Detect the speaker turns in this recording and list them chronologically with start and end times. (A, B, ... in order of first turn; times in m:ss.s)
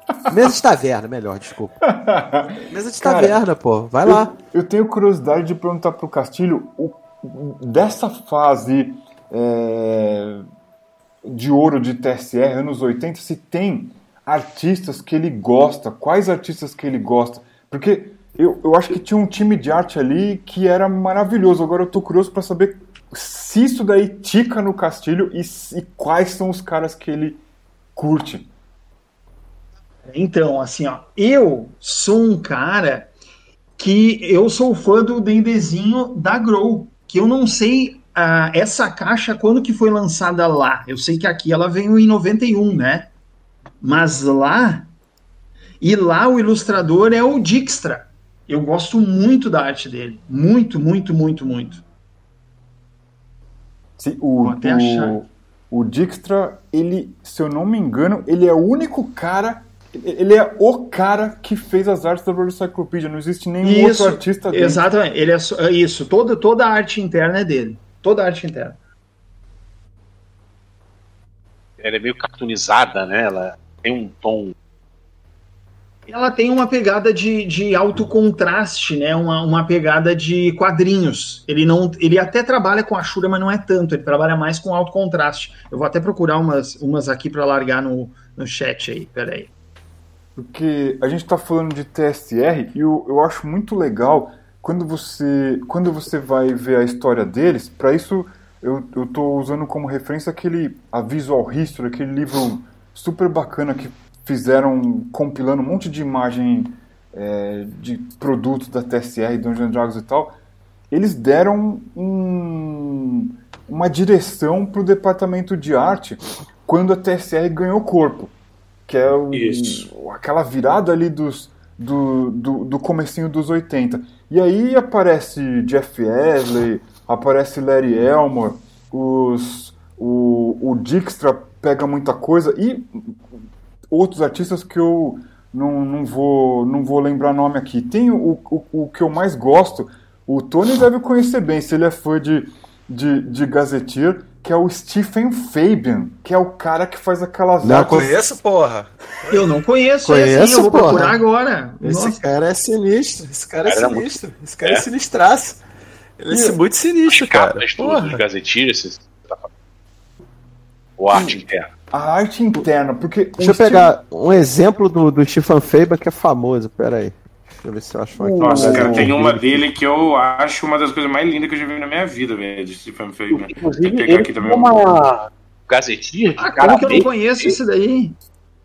0:00.3-0:01.8 A
0:01.8-0:03.4 B
0:02.7-0:04.3 A
0:04.0-0:10.4 B
0:11.2-0:27.4 B
0:27.9-0:28.5 B
0:30.1-0:33.1 C
0:33.8-0:43.1 C
0:43.8-0:44.9 C
0:45.8-0:51.8 C
0:54.0-1:04.8 B
0:54.4-0:55.2 C
1:03.6-1:08.8 C
1:11.8-1:14.5 D
1:16.1-1:29.5 C
1:30.4-1:50.3 B
1:50.9-1:58.3 B
1:58.9-2:13.2 B
1:59.3-1:59.9 E
2:13.9-2:28.1 B
2:27.6-2:29.4 A
2:29.3-2:32.2 C
2:30.0-2:31.2 A
2:31.8-2:35.6 A
2:33.6-2:34.1 D
2:36.2-2:37.6 A
2:36.3-2:36.6 B
2:37.0-2:39.5 D
2:37.8-2:38.2 C
2:41.0-2:41.7 D
2:41.1-2:41.4 A
2:41.9-2:43.9 B
2:43.4-2:49.6 A
2:48.2-2:49.2 B
2:48.4-2:55.1 E
2:53.3-2:57.6 D
2:56.4-2:58.2 C